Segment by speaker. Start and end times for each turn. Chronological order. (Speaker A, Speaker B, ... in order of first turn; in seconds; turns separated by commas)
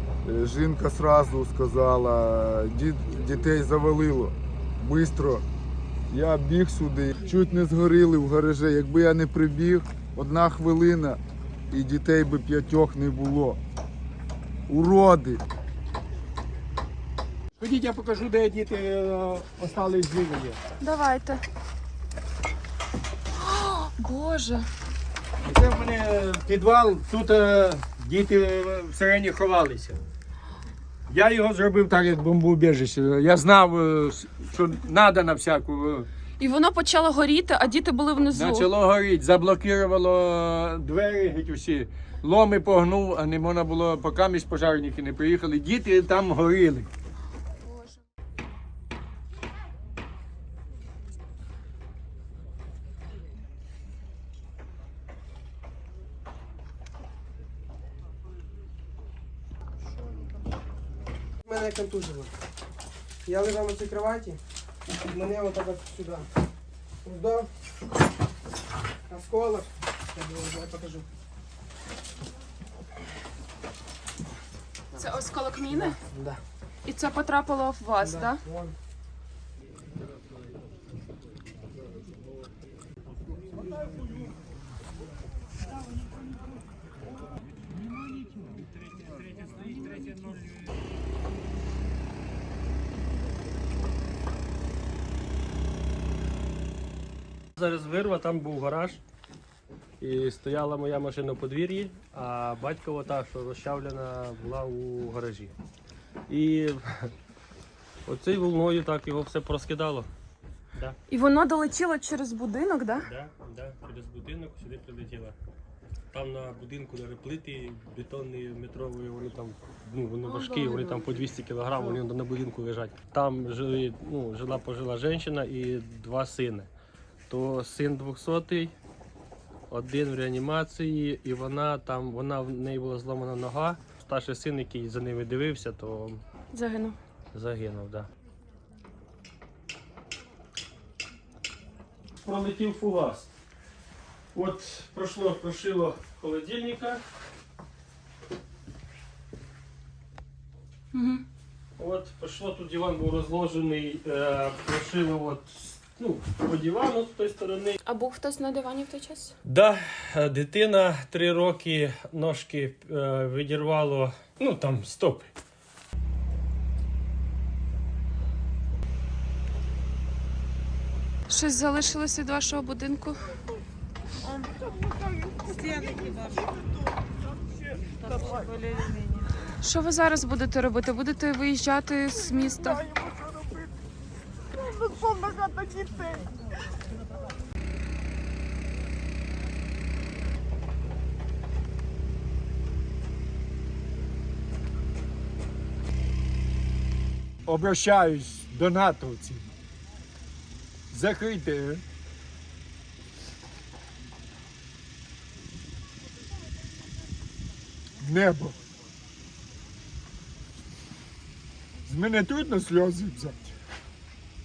Speaker A: 0.2-5.4, Speaker A: 6.1-11.2, Speaker A: 11.7-13.6, Speaker A: 14.7-15.4, Speaker B: 17.6-20.6, Speaker C: 20.8-21.4, Speaker C: 23.4-24.7, Speaker B: 25.4-30.0, Speaker B: 31.1-36.1, Speaker C: 36.4-38.7, Speaker B: 38.3-46.9, Speaker D: 61.5-62.3, Speaker D: 63.2-64.4, Speaker D: 65.1-66.3, Speaker D: 67.0-67.5, Speaker D: 69.1-71.0, Speaker C: 74.9-75.9, Speaker D: 75.7-76.4, Speaker C: 76.8-78.4, Speaker D: 78.0-78.7, Speaker E: 97.6-99.0, Speaker E: 100.0-105.5, Speaker E: 106.3-107.1, Speaker E: 108.0-110.1, Speaker C: 111.1-113.0, Speaker E: 113.0-115.4, Speaker E: 116.1-126.7, Speaker C: 120.2-121.1, Speaker E: 127.3-128.7, Speaker E: 129.7-136.2, Speaker C: 136.5-137.0, Speaker E: 137.3-138.1, Speaker E: 142.2-143.3, Speaker E: 144.3-147.0, Speaker C: 150.9-151.2, Speaker E: 151.8-157.8, Speaker C: 157.8-159.3, Speaker E: 159.4-165.3, Speaker C: 171.3-173.3, Speaker D: 174.7-176.1, Speaker D: 178.2-178.4, Speaker C: 179.6-182.8, Speaker D: 182.9-183.3, Speaker D: 184.7-186.2, Speaker B: 197.4-199.5, Speaker B: 200.9-201.8, Speaker B: 208.0-208.5, Speaker B: 211.8-213.5